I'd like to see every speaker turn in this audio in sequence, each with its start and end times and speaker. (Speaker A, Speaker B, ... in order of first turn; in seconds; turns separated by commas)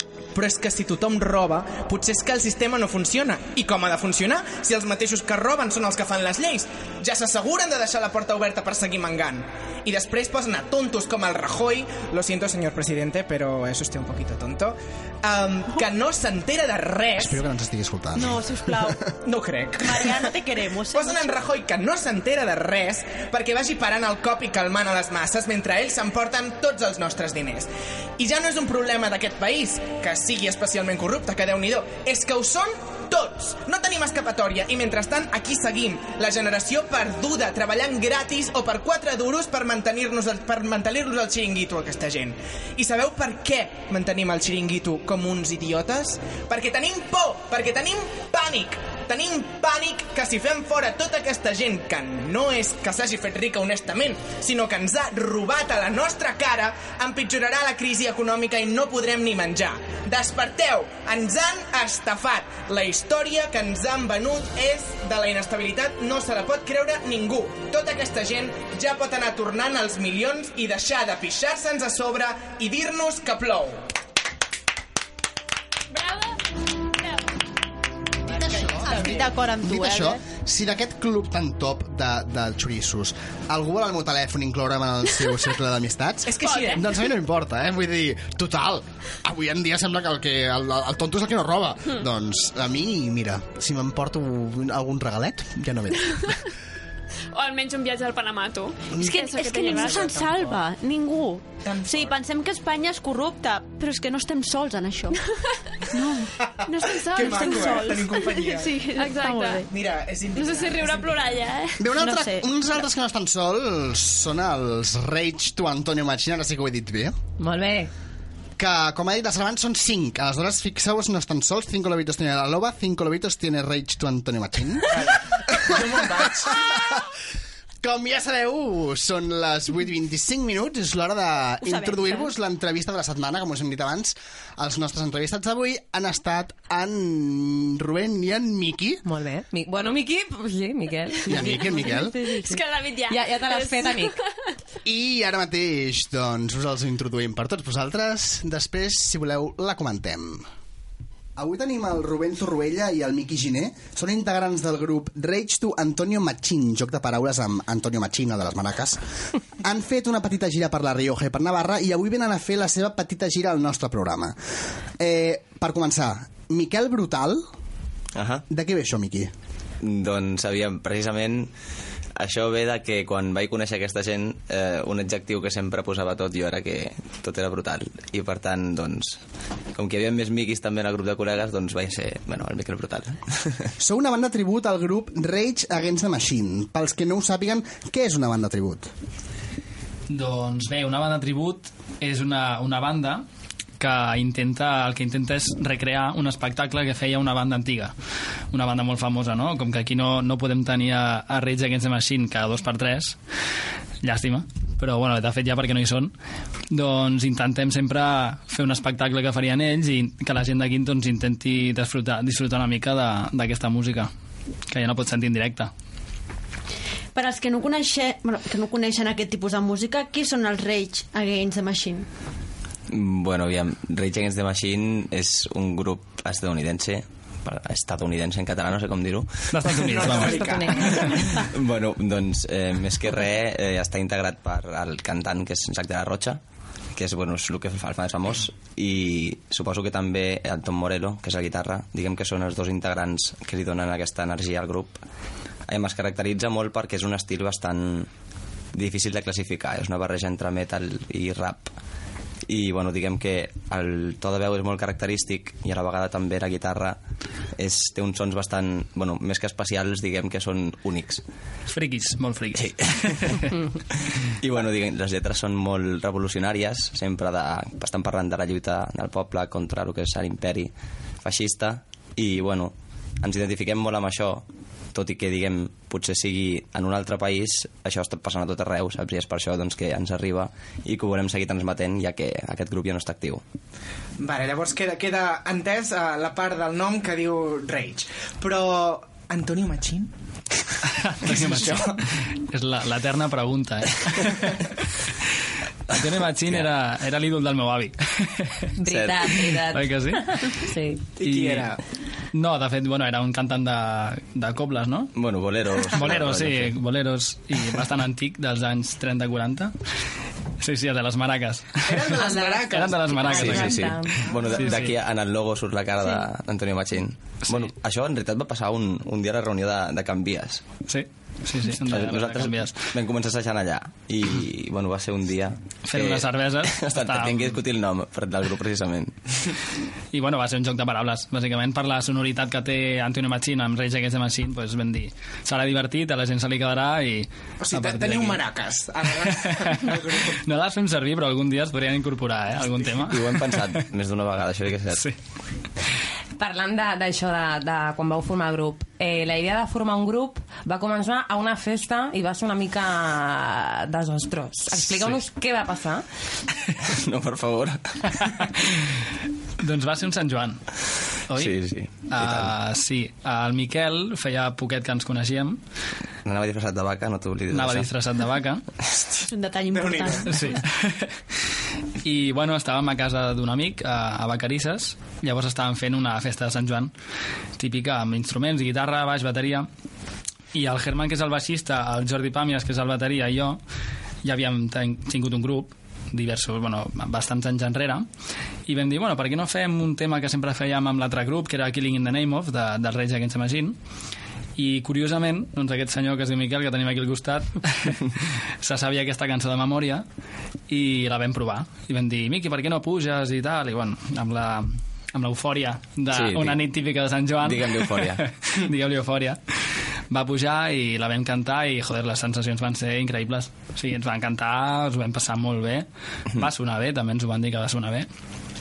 Speaker A: 0.3-17.4, Speaker B: 17.1-19.1, Speaker C: 18.1-19.0, Speaker A: 19.2-20.2, Speaker C: 19.8-21.3, Speaker A: 20.9-73.8, Speaker D: 75.9-76.3, Speaker B: 78.2-96.4, Speaker A: 78.8-79.1, Speaker C: 78.9-80.2, Speaker A: 86.2-86.9, Speaker D: 86.4-86.8, Speaker D: 97.3-100.1, Speaker C: 99.0-105.2, Speaker A: 99.7-100.6, Speaker A: 101.6-102.1, Speaker C: 105.8-109.7, Speaker A: 106.4-108.7, Speaker D: 106.8-108.0, Speaker D: 109.0-109.6, Speaker A: 109.7-111.2, Speaker D: 110.3-111.8, Speaker B: 111.8-117.2, Speaker C: 111.9-112.5, Speaker E: 117.4-117.9, Speaker B: 118.6-126.8, Speaker A: 124.9-126.8, Speaker B: 127.8-139.0, Speaker C: 131.6-132.3, Speaker E: 139.1-144.2, Speaker B: 141.3-142.2, Speaker D: 142.4-144.2, Speaker B: 144.8-150.5, Speaker B: 151.4-159.0, Speaker B: 159.6-164.3, Speaker B: 165.0-167.4, Speaker F: 168.1-168.4, Speaker B: 168.5-169.3, Speaker F: 169.8-171.5, Speaker F: 172.2-179.2, Speaker F: 179.7-183.5, Speaker B: 183.8-188.9, Speaker G: 190.1-193.2, Speaker G: 193.8-197.9, Speaker G: 198.5-203.2, Speaker G: 204.0-206.1, Speaker G: 206.7-214.1, Speaker G: 214.7-215.7, Speaker C: 217.1-222.1, Speaker F: 222.9-229.7, Speaker G: 229.5-230.5, Speaker A: 229.6-231.4, Speaker E: 230.2-231.1, Speaker F: 231.3-236.4, Speaker F: 236.9-245.0, Speaker F: 245.7-248.1, Speaker F: 248.7-251.7, Speaker F: 252.5-257.0, Speaker F: 257.6-261.2, Speaker G: 261.7-263.5, Speaker F: 262.6-263.4, Speaker F: 264.4-270.7, Speaker F: 271.2-283.4, Speaker A: 284.2-290.1, Speaker G: 291.0-294.6, Speaker A: 291.2-292.0, Speaker F: 295.9-296.7, Speaker G: 295.9-298.6, Speaker E: 298.8-301.1, Speaker F: 298.9-299.3, Speaker G: 299.7-300.5, Speaker A: 301.2-301.8, Speaker G: 301.2-301.7, Speaker G: 302.3-305.1, Speaker F: 305.1-306.8, Speaker G: 305.9-309.7, Speaker G: 310.6-314.0, Speaker A: 311.9-313.7, Speaker E: 312.1-314.7, Speaker F: 313.4-320.6, Speaker G: 314.5-314.9, Speaker G: 320.9-322.8, Speaker F: 321.7-329.1, Speaker G: 325.9-327.5, Speaker G: 330.1-338.4, Speaker A: 337.6-340.4, Speaker G: 339.2-343.8, Speaker F: 342.9-345.1, Speaker E: 346.4-356.0, Speaker F: 356.9-358.5, Speaker G: 359.6-360.6, Speaker G: 361.3-365.6, Speaker F: 361.3-362.5, Speaker F: 366.2-367.9, Speaker G: 367.5-368.6, Speaker C: 369.2-370.5, Speaker A: 369.7-370.5, Speaker G: 370.3-371.1, Speaker G: 372.0-376.9, Speaker G: 377.6-379.7, Speaker G: 380.5-383.6, Speaker G: 384.2-388.1, Speaker G: 388.7-393.8, Speaker G: 394.6-400.0, Speaker G: 400.7-409.4, Speaker F: 406.1-406.6, Speaker F: 407.4-408.2, Speaker G: 410.1-418.1